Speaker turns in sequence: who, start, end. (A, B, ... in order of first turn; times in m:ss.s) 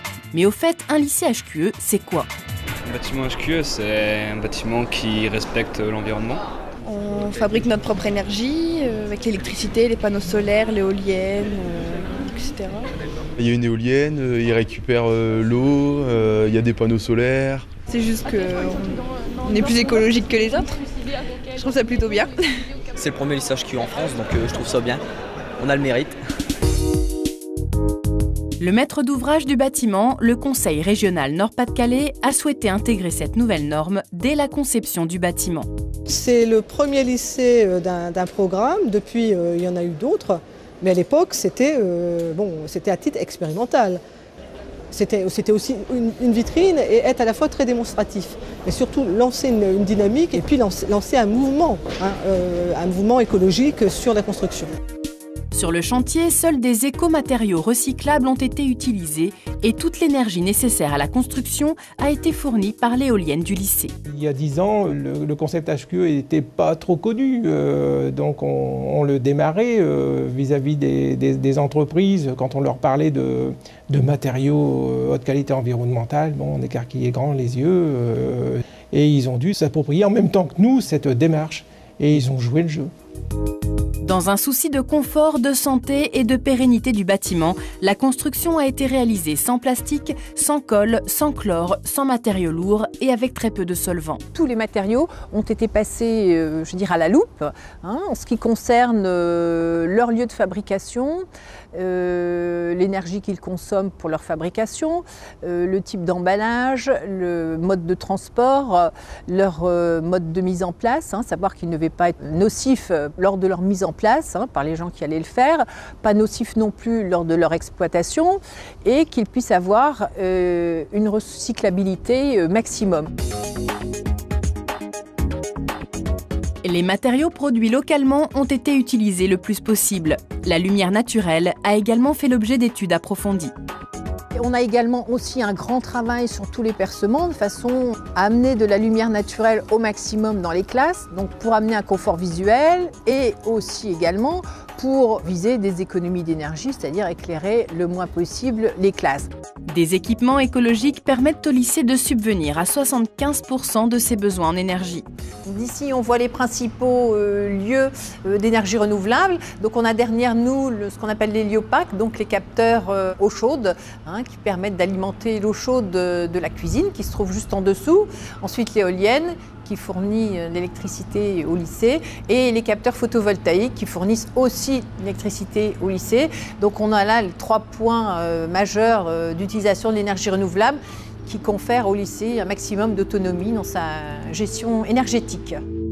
0:00.3-0:02.3 A
0:02.8-0:06.4 B
0:06.8-0:12.9 C
0:13.4-0:17.7 D
0:17.9-0:20.8 C
0:21.5-0:22.7 C
0:23.0-0:25.0 E
0:25.6-0:26.2 E
0:28.6-0:35.7 A
0:36.0-0:44.0 F
0:44.9-0:54.7 F
0:55.5-1:03.9 A
1:04.0-1:22.9 G
1:24.0-1:34.2 A
1:34.3-2:03.1 H
2:06.6-2:13.5 A
2:14.3-2:29.3 H
2:29.7-2:35.0 A
2:35.4-3:05.6 H